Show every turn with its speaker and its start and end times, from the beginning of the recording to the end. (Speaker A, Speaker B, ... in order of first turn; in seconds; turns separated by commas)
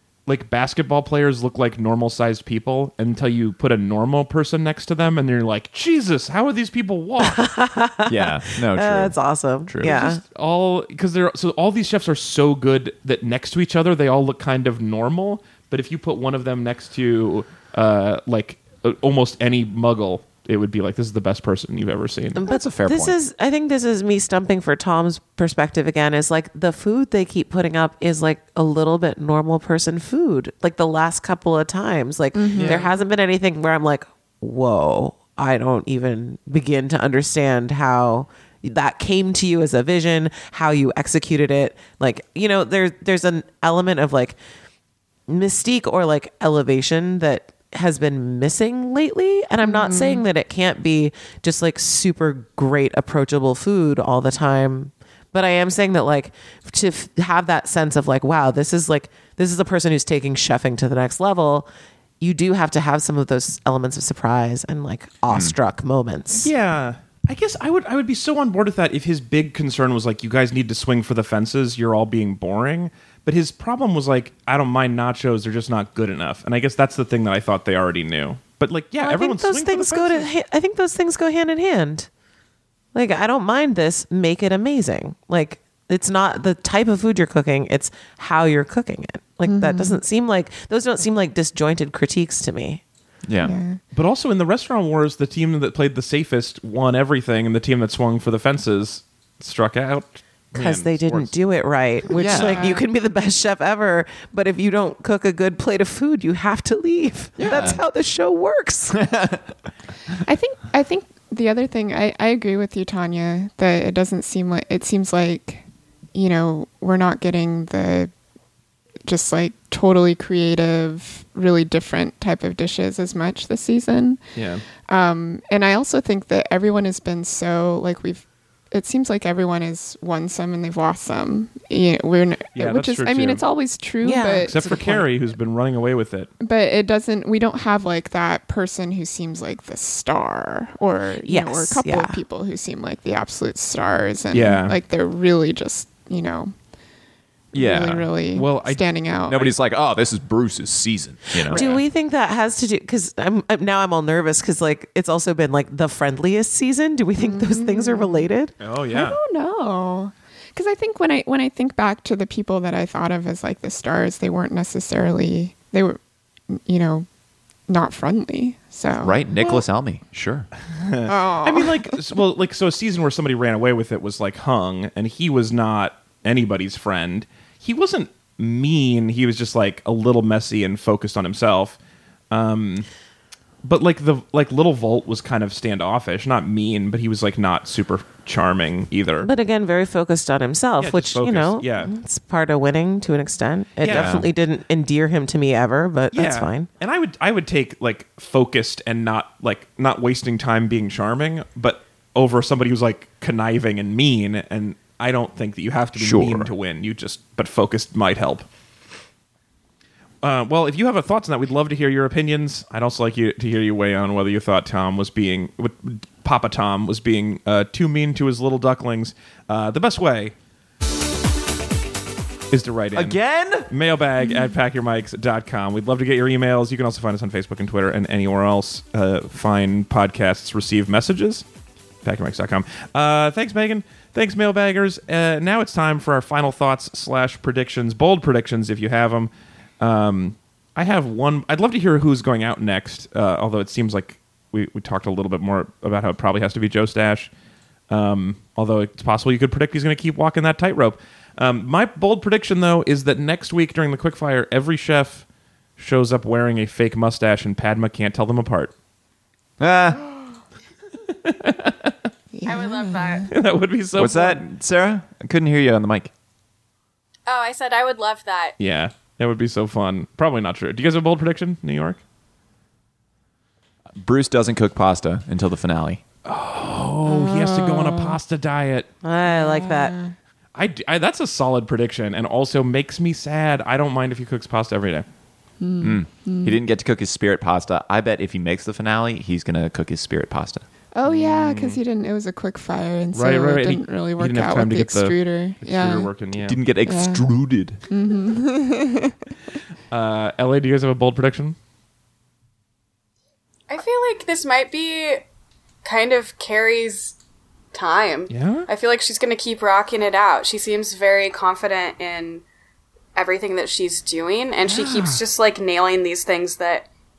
Speaker A: 0.3-7.4, Speaker B: 7.2-10.2, Speaker C: 8.1-10.0, Speaker A: 9.8-22.4, Speaker B: 22.4-44.4, Speaker C: 22.4-23.2, Speaker D: 32.3-32.9, Speaker C: 32.5-32.9, Speaker B: 45.3-61.7, Speaker D: 49.6-50.2, Speaker B: 62.2-66.5, Speaker C: 65.3-65.5, Speaker A: 66.3-80.3, Speaker B: 79.0-82.1, Speaker B: 82.9-92.8, Speaker D: 89.5-90.0, Speaker C: 93.2-93.6, Speaker D: 93.4-93.8, Speaker A: 93.9-101.3, Speaker B: 100.5-109.0, Speaker C: 102.1-102.7, Speaker D: 102.4-102.8, Speaker C: 107.4-107.8, Speaker C: 108.9-109.4, Speaker D: 110.2-118.1, Speaker D: 119.0-124.2, Speaker A: 124.4-124.6, Speaker D: 124.9-134.6, Speaker A: 132.6-133.4, Speaker B: 134.0-135.1, Speaker A: 134.4-136.3, Speaker D: 136.4-146.5, Speaker B: 141.2-142.2, Speaker A: 144.3-144.8, Speaker C: 147.5-148.1, Speaker D: 147.5-149.5, Speaker A: 148.3-148.8, Speaker C: 149.3-151.6, Speaker B: 151.4-158.5, Speaker A: 151.5-151.8, Speaker D: 157.2-158.3, Speaker A: 158.6-159.2, Speaker D: 158.9-167.1, Speaker D: 167.7-169.5, Speaker C: 168.9-170.5, Speaker A: 170.7-181.8, Speaker D: 171.1-172.0, Speaker A: 182.3-182.9, Speaker A: 183.6-189.3, Speaker B: 189.2-196.7, Speaker A: 190.8-191.9, Speaker A: 193.8-194.2, Speaker C: 193.9-194.3, Speaker A: 196.1-208.5, Speaker C: 206.0-206.5, Speaker A: 210.2-220.3, Speaker A: 222.5-231.4, Speaker C: 222.9-223.7, Speaker D: 224.2-224.6, Speaker A: 232.0-247.3, Speaker A: 247.9-255.3, Speaker A: 255.8-258.7, Speaker C: 259.6-260.0, Speaker A: 261.1-262.0, Speaker D: 262.3-263.3, Speaker E: 262.4-263.3, Speaker A: 263.3-264.4, Speaker C: 264.0-266.1, Speaker E: 267.3-268.6, Speaker A: 268.6-272.0, Speaker C: 273.9-276.0, Speaker A: 276.2-278.9, Speaker D: 277.1-278.2, Speaker B: 279.0-280.0, Speaker D: 279.2-280.1, Speaker A: 280.6-285.1, Speaker D: 285.6-286.6, Speaker C: 285.8-290.6, Speaker D: 290.9-296.1, Speaker A: 291.1-291.8, Speaker A: 293.1-296.6, Speaker C: 296.4-297.8, Speaker D: 296.9-297.3, Speaker D: 297.9-299.2, Speaker A: 299.9-301.6, Speaker E: 303.7-305.2, Speaker E: 305.8-307.1, Speaker E: 307.7-312.4, Speaker A: 308.3-308.7, Speaker E: 313.1-316.9, Speaker A: 314.6-315.2